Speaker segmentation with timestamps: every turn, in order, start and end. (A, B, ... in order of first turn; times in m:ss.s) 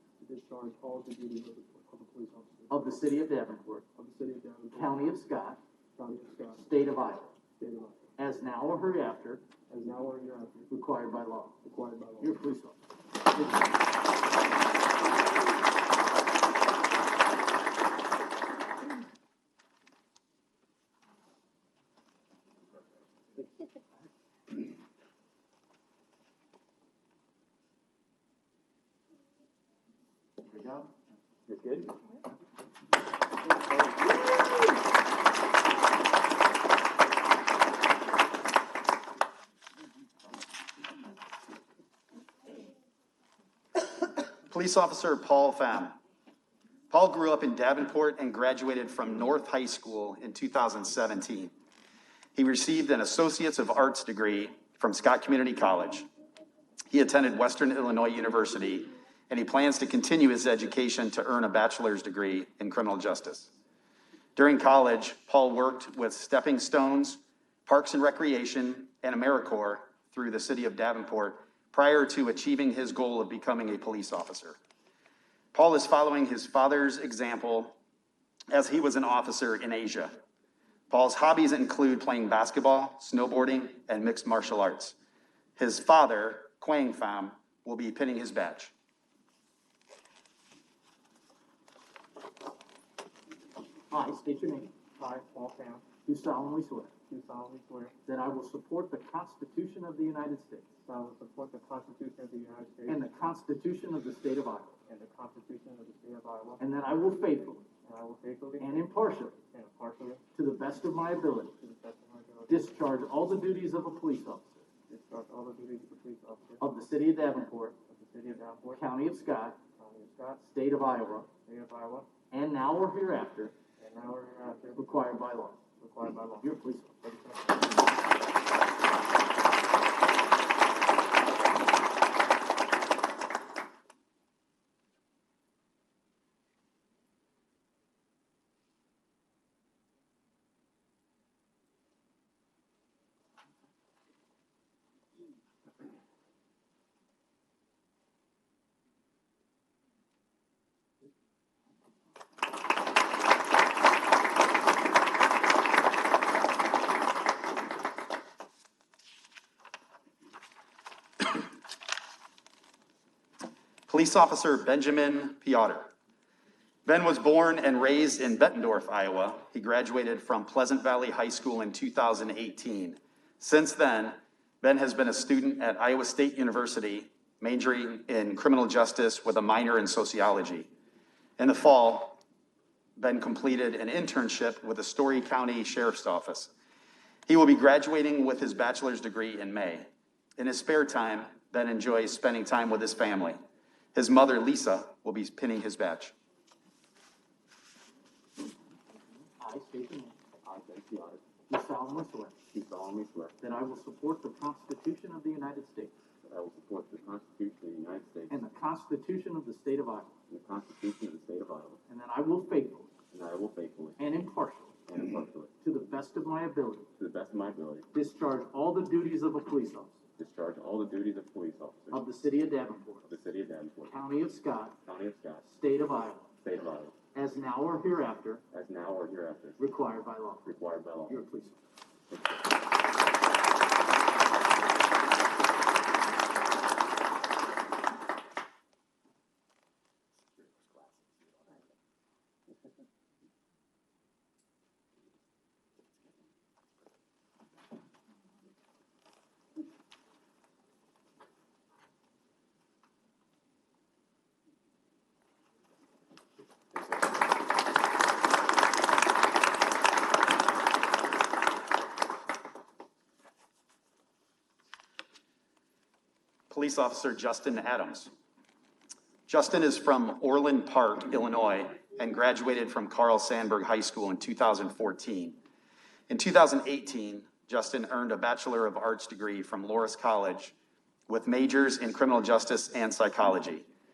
0:00.2-0:02.9 A
0:02.7-0:03.8 B
0:04.0-0:05.0 A
0:04.8-0:05.6 B
0:06.0-0:06.6 A
0:06.6-0:07.3 B
0:07.6-0:08.0 A
0:08.2-0:09.5 B
0:09.7-0:10.7 A
0:10.7-0:11.6 B
0:11.6-0:12.4 A
0:12.2-0:12.8 B
0:13.4-0:13.7 B
0:31.5-0:31.9 C
0:43.8-0:46.0 D
0:46.9-0:51.5 D
0:52.4-0:56.1 D
0:56.9-1:03.5 D
1:04.4-1:14.6 D
1:15.5-1:17.8 D
1:18.5-1:20.2 D
1:20.9-1:25.0 D
1:25.6-1:28.7 D
1:33.9-1:34.8 B
1:35.0-1:35.8 A
1:36.0-1:37.0 B
1:37.1-1:38.0 A
1:38.1-1:40.7 B
1:40.8-1:43.0 A
1:42.9-1:44.8 B
1:44.9-1:46.7 A
1:46.6-1:47.7 B
1:47.8-1:48.8 A
1:48.6-1:49.4 B
1:49.5-1:50.2 A
1:50.3-1:51.6 B
1:51.6-1:52.8 A
1:52.5-1:54.7 B
1:54.9-1:56.6 A
1:56.6-1:57.8 B
1:57.9-1:58.9 A
1:58.7-1:59.6 B
1:59.8-2:00.4 A
2:00.4-2:01.3 B
2:01.4-2:02.1 A
2:02.3-2:03.6 B
2:03.8-2:04.8 A
2:04.8-2:05.6 B
2:05.8-2:06.5 A
2:06.4-2:07.3 B
2:43.9-2:45.9 D
2:46.9-3:00.7 D
3:01.4-3:02.2 D
3:03.0-3:06.5 D
3:07.3-3:09.9 D
3:10.4-3:13.4 D
3:14.0-3:16.1 D
3:19.4-3:20.2 B
3:20.4-3:21.2 C
3:21.5-3:22.4 B
3:22.5-3:23.4 C
3:23.4-3:25.9 B
3:26.3-3:28.4 C
3:28.3-3:30.1 B
3:30.3-3:31.8 C
3:31.9-3:32.9 B
3:33.1-3:34.0 C
3:34.0-3:34.8 B
3:34.9-3:35.5 C
3:35.6-3:36.9 B
3:37.0-3:37.9 C
3:37.9-3:40.0 B
3:40.2-3:42.0 C
3:41.9-3:43.1 B
3:43.1-3:43.9 C
3:43.9-3:44.8 B
3:44.8-3:45.4 C
3:45.4-3:46.3 B
3:46.4-3:46.9 C
3:47.1-3:48.4 B
3:48.5-3:49.6 C
3:49.6-3:50.6 B
3:50.5-3:51.2 C
3:51.1-3:51.6 B
3:52.1-3:52.4 C
4:26.5-4:28.1 D
4:29.3-4:35.4 D
4:36.1-4:40.6 D
4:41.1-4:43.7 D